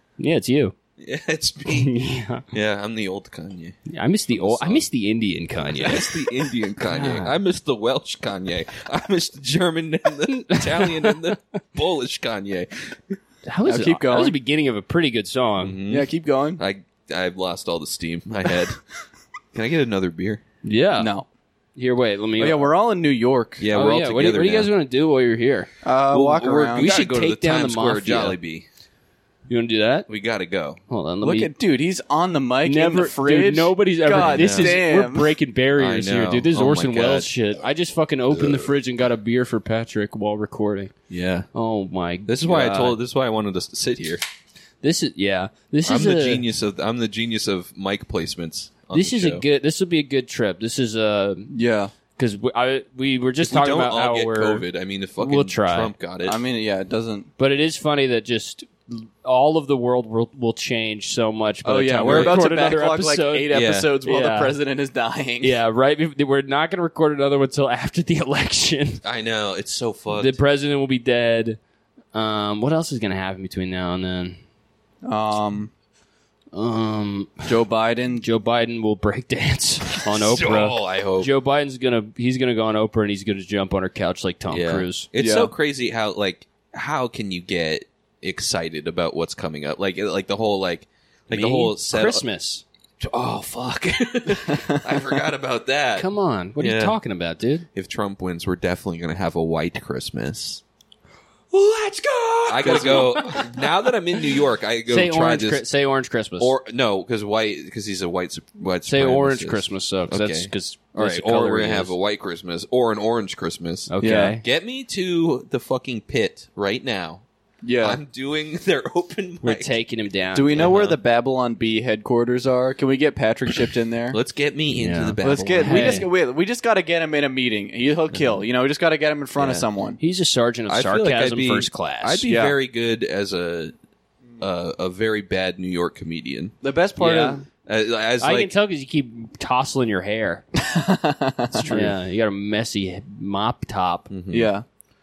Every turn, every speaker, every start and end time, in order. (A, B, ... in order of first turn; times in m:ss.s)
0:00.2-0:00.8 A
0:01.0-0:01.9 B
0:01.7-0:02.4 A
0:02.5-0:03.8 B
0:03.9-0:06.2 A
0:04.3-0:04.8 B
0:05.7-0:13.2 B
0:06.9-0:07.3 A
0:10.4-0:11.3 A
0:13.4-0:15.8 A
0:13.7-0:14.4 C
0:15.6-0:18.8 B
0:15.9-0:16.6 C
0:19.5-0:20.4 B
0:20.6-0:21.1 A
0:20.9-0:21.2 C
0:21.8-0:22.7 A
0:22.4-0:23.7 C
0:23.6-0:24.7 B
0:23.7-0:25.7 A
0:25.8-0:26.9 C
0:26.1-0:28.7 B
0:26.8-0:28.4 A
0:29.5-0:30.1 A
0:30.1-0:30.8 B
0:30.9-0:31.5 A
0:31.2-0:35.3 C
0:32.6-0:40.9 A
0:34.1-0:34.8 B
0:35.8-0:37.3 B
0:38.3-0:38.7 B
0:41.1-0:41.5 B
0:41.5-0:43.0 A
0:42.2-0:44.2 B
0:44.8-0:46.4 A
0:45.9-0:49.4 B
0:48.9-0:51.5 A
0:51.5-0:51.9 C
0:52.2-0:54.7 A
0:53.4-0:56.4 B
0:55.2-0:55.9 A
0:56.2-0:57.3 C
0:57.4-1:04.6 A
1:01.6-1:05.5 C
1:02.0-1:02.4 B
1:03.5-1:04.0 B
1:05.4-1:09.0 A
1:09.0-1:10.4 B
1:10.1-1:11.6 A
1:12.1-1:14.4 A
1:15.0-1:15.7 C
1:16.5-1:17.5 A
1:17.4-1:18.3 C
1:18.2-1:25.1 A
1:20.1-1:21.3 B
1:24.5-1:32.2 B
1:25.2-1:25.5 C
1:31.3-1:32.6 A
1:33.0-1:37.0 B
1:34.4-1:34.8 C
1:36.0-1:37.7 A
1:37.7-1:40.6 B
1:41.5-1:44.4 A
1:42.5-1:45.6 B
1:44.9-1:46.5 A
1:46.4-1:57.2 B
1:48.9-1:51.9 A
1:53.9-1:54.4 A
1:54.0-1:54.4 C
1:57.6-1:58.0 C
1:57.8-1:59.8 B
1:59.4-2:01.0 A
2:00.4-2:04.2 C
2:00.6-2:01.0 B
2:04.1-2:06.1 B
2:04.8-2:06.1 A
2:05.2-2:10.0 C
2:09.4-2:09.6 B
2:10.0-2:12.3 A
2:10.7-2:13.7 B
2:12.3-2:12.5 C
2:14.4-2:16.6 B
2:16.6-2:17.4 C
2:17.0-2:17.4 A
2:17.6-2:18.5 B
2:18.2-2:20.4 A
2:20.6-2:22.0 C
2:21.7-2:24.1 A
2:24.1-2:24.5 B
2:24.3-2:24.6 C